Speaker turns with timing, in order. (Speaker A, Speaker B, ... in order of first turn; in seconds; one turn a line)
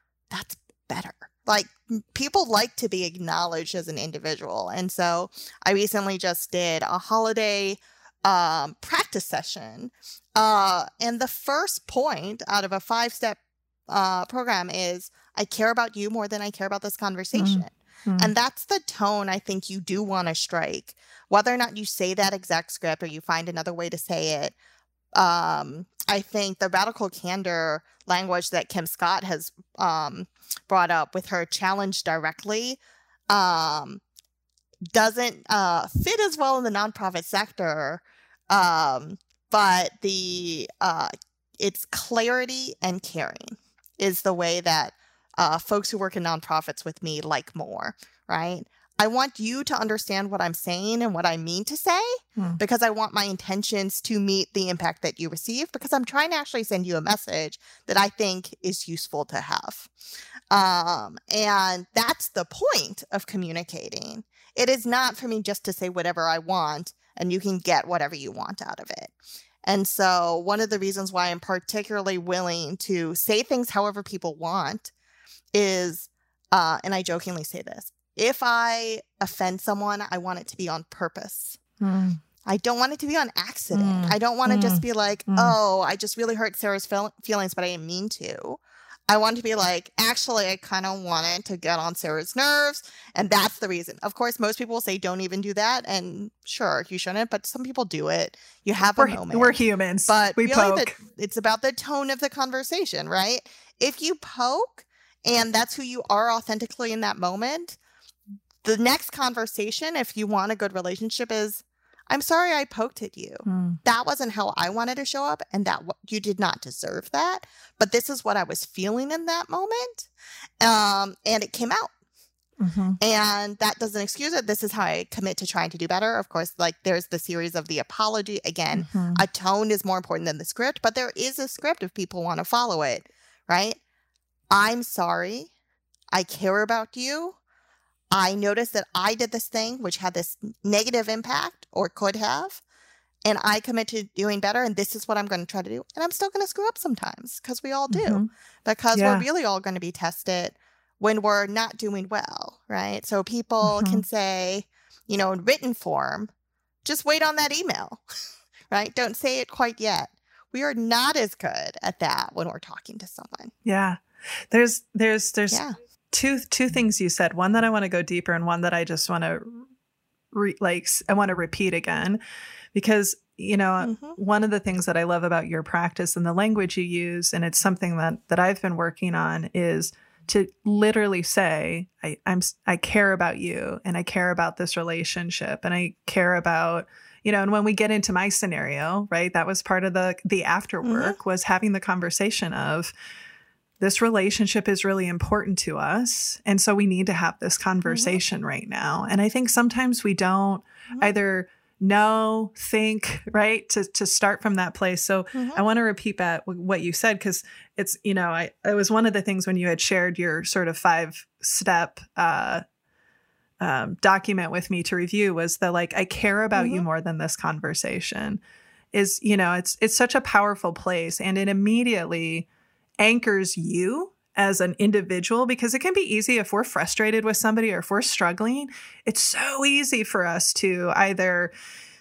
Speaker A: 0.3-24.5
Speaker B: 17.3-18.3
Speaker A: 25.1-32.8
Speaker A: 33.3-34.0
Speaker A: 34.9-59.9
Speaker A: 60.5-69.1
Speaker A: 69.7-74.9
Speaker A: 75.5-81.6
Speaker B: 81.8-82.2
Speaker A: 82.5-99.6
Speaker B: 83.7-85.5
Speaker B: 99.0-101.0
Speaker A: 100.1-107.8
Speaker A: 108.6-120.1
Speaker B: 113.4-113.8
Speaker A: 120.6-121.9
Speaker B: 122.6-123.0
Speaker A: 123.0-133.8
Speaker B: 128.7-129.2
Speaker A: 134.5-135.5
Speaker A: 136.1-137.4
Speaker A: 138.1-142.6
Speaker A: 143.2-156.3
Speaker B: 147.9-148.3
Speaker B: 148.9-149.2
Speaker B: 153.6-154.0
Speaker A: 156.8-158.0
Speaker A: 158.7-163.5
Speaker B: 163.6-169.6
Speaker A: 165.5-165.8
Speaker B: 170.3-172.2
Speaker B: 172.7-192.9
Speaker A: 173.8-174.2
Speaker A: 190.8-191.2
Speaker B: 193.8-212.6
Speaker A: 197.9-198.2
Speaker A: 205.3-205.6
Speaker B: 213.6-218.4
Speaker A: 216.5-216.8
Speaker B: 218.9-222.5
Speaker B: 223.0-231.5